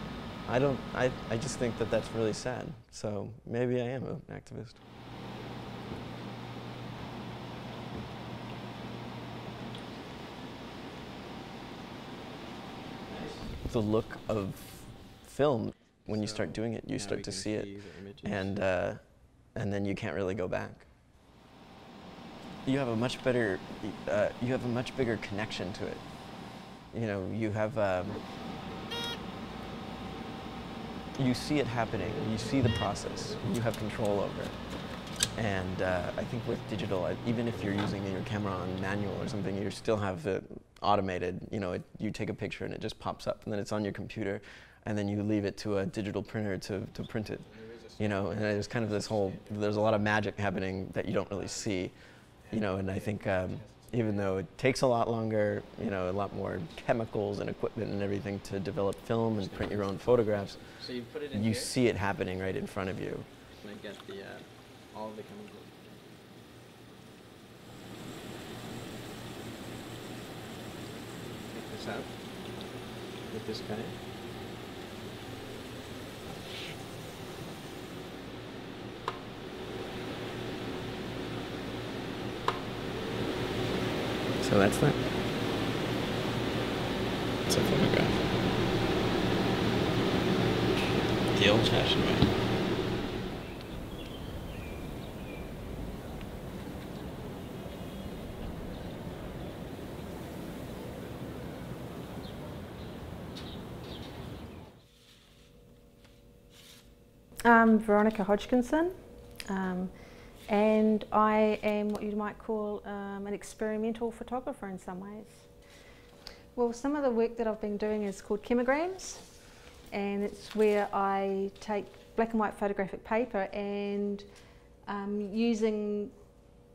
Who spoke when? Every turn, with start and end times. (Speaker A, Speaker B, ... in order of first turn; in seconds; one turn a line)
Speaker A: 0.4-4.8
Speaker B: 13.1-13.6
Speaker A: 13.6-20.9
Speaker B: 16.0-18.6
Speaker A: 22.6-28.3
Speaker A: 31.1-63.3
Speaker B: 47.6-49.9
Speaker B: 51.4-51.7
Speaker B: 52.4-54.3
Speaker B: 59.4-61.7
Speaker B: 63.5-65.9
Speaker B: 71.5-72.6
Speaker B: 73.2-74.0
Speaker A: 84.4-85.1
Speaker A: 87.5-88.3
Speaker A: 91.3-92.3
Speaker C: 107.4-115.8
Speaker C: 116.5-126.3